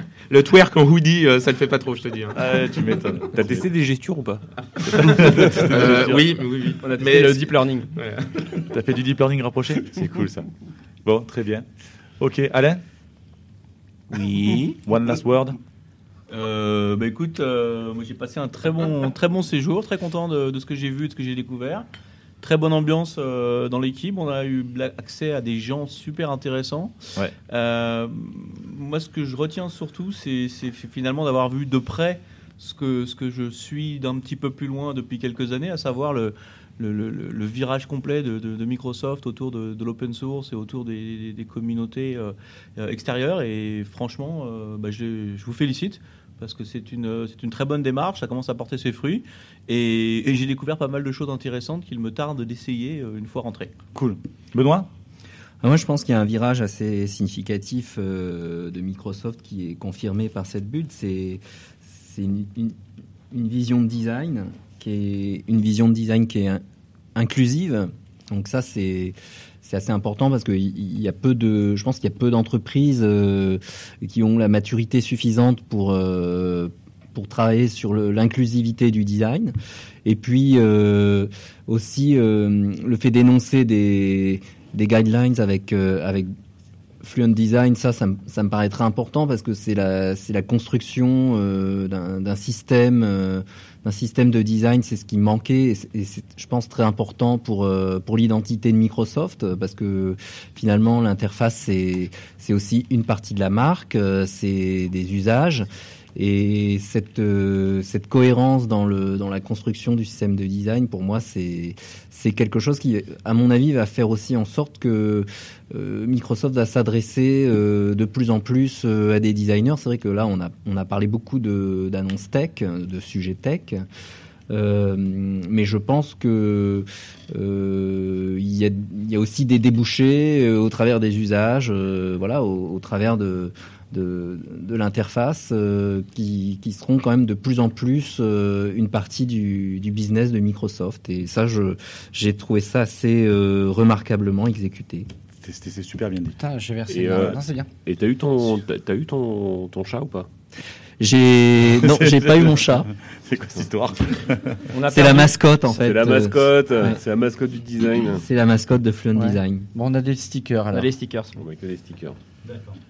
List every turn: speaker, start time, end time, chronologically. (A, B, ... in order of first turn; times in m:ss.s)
0:00.3-0:02.4 A
0:02.3-0:03.7 B
0:03.3-0:04.4 C
0:04.8-0:08.6 A
0:05.0-0:06.2 C
0:05.4-0:06.0 B
0:06.8-0:07.9 D
0:08.7-0:10.5 B
0:11.0-0:11.7 B
0:12.2-0:12.8 B
0:14.1-0:14.8 E
0:14.8-0:15.6 B
0:16.3-0:21.9 E
0:22.4-0:27.0 E
0:27.5-0:53.7 E
0:54.0-0:54.9 B
0:55.6-1:02.8 F
1:03.3-1:06.6 F
1:07.2-1:19.5 F
1:20.0-1:26.3 F
1:27.0-2:03.8 F
2:04.5-2:25.1 F
2:25.4-2:26.4 B
2:26.4-2:27.7 G
2:26.9-2:30.3 C
2:31.0-2:32.9 F
2:31.7-2:34.6 B
2:34.7-2:35.4 D
2:34.9-2:37.0 F
2:35.7-2:38.2 C
2:38.2-2:39.7 F
2:39.2-2:40.9 G
2:40.7-2:41.4 D
2:41.4-2:42.2 C